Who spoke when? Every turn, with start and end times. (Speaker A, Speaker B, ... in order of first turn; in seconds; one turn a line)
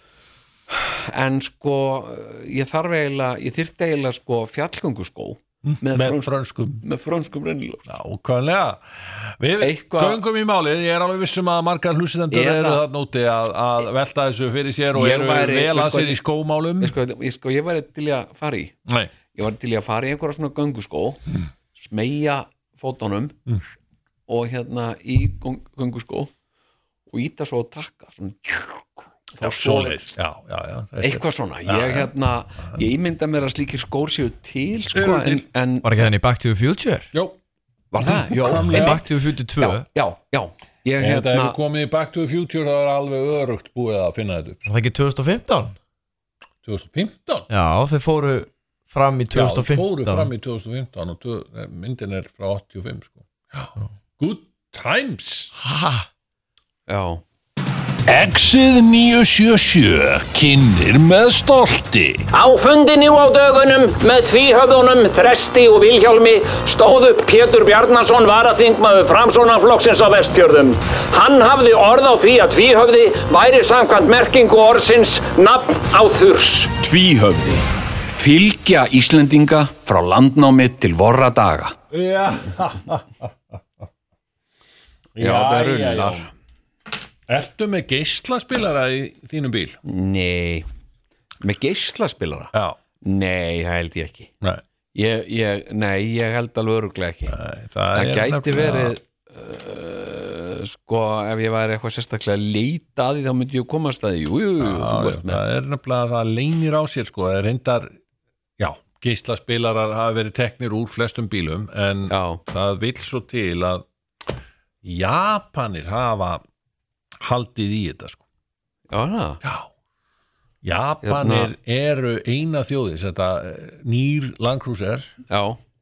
Speaker A: 0.7-7.9
Speaker B: 5.7-6.8
Speaker B: 7.9-17.0
Speaker A: 9.6-10.2
Speaker A: 12.3-12.8
Speaker A: 14.9-16.2
Speaker A: 16.8-18.7
Speaker B: 18.9-19.1
Speaker A: 19.3-21.2
Speaker A: 21.8-23.4
Speaker A: 24.3-26.3
Speaker A: 27.1-30.1
Speaker B: 29.4-32.1
Speaker A: 31.0-36.1
Speaker B: 34.9-35.5
Speaker C: 35.8-37.1
Speaker A: 37.9-39.1
Speaker B: 38.0-39.1
Speaker C: 38.4-39.9
Speaker A: 39.6-41.6
Speaker B: 41.0-44.7
Speaker C: 44.7-45.8
Speaker B: 46.6-47.5
Speaker C: 47.5-50.3
Speaker B: 49.3-55.5
Speaker C: 55.6-56.1
Speaker A: 56.9-57.2
Speaker B: 58.1-62.3
Speaker D: 62.3-76.8
Speaker A: 76.8-81.8
Speaker B: 81.9-83.6
Speaker B: 85.2-86.3
Speaker A: 85.2-86.3
Speaker B: 87.3-89.8
Speaker A: 89.8-90.7
Speaker A: 91.4-94.3
Speaker B: 92.5-92.8
Speaker A: 94.9-97.4
Speaker B: 97.3-99.0
Speaker A: 97.9-105.4
Speaker B: 104.6-108.0
Speaker B: 108.6-113.8
Speaker A: 112.1-112.4
Speaker B: 114.8-116.4
Speaker B: 117.2-118.2
Speaker A: 118.9-119.4
Speaker B: 119.4-119.7
Speaker B: 120.6-125.1
Speaker A: 121.0-121.5
Speaker A: 125.3-125.6